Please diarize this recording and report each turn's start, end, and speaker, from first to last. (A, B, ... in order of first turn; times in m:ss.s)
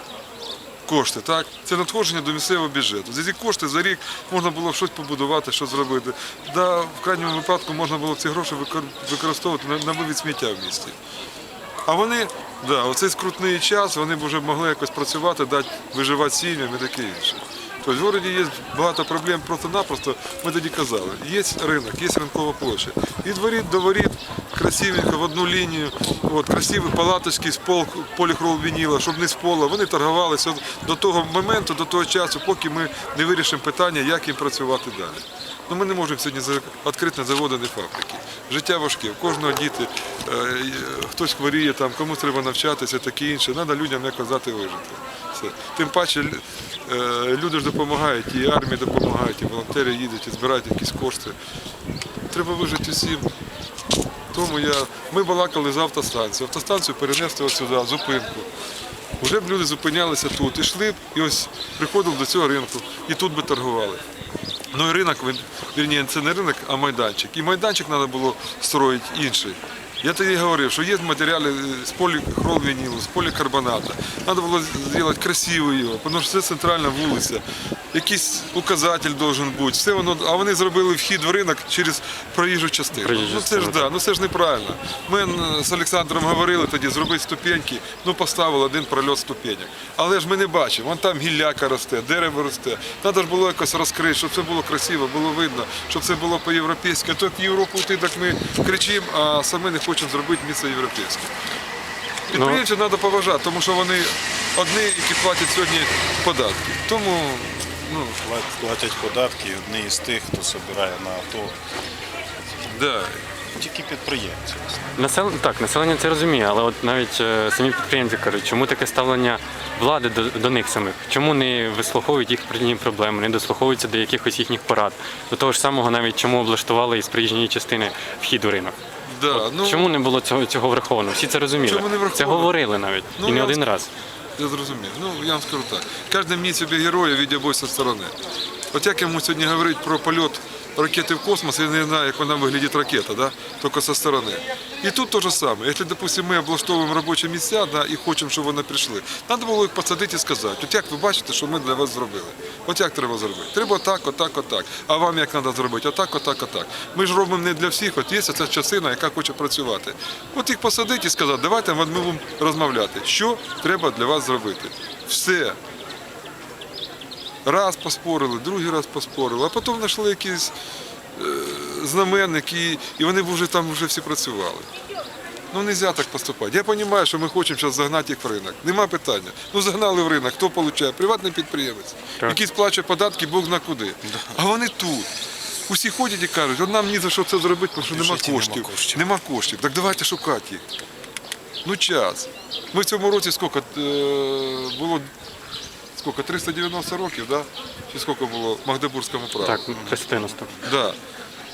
0:00.9-0:11.0 A
0:11.9-0:51.4 A
0:52.3-0:53.3 A
0:54.3-0:58.5 A
0:59.2-1:04.0 A
1:04.7-1:41.4 A
1:22.9-1:24.0 B
1:42.3-1:48.2 A
1:42.3-1:42.6 B
1:48.2-1:51.6 C
1:52.7-1:53.2 A
1:53.5-1:54.9 C
1:55.0-2:08.8 B
2:09.1-2:10.0 A
2:09.3-2:13.9 B
2:11.6-2:12.5 A
2:13.2-2:13.6 A
2:14.4-2:18.1 A
2:18.7-2:45.6 A
2:47.4-2:50.5 A
2:51.1-2:54.7 A
2:55.5-3:05.1 A
3:05.7-3:10.6 A
3:07.8-3:09.1 C
3:11.6-3:15.1 A
3:16.0-3:19.8 A
3:19.4-3:20.6 B
3:20.6-3:21.0 A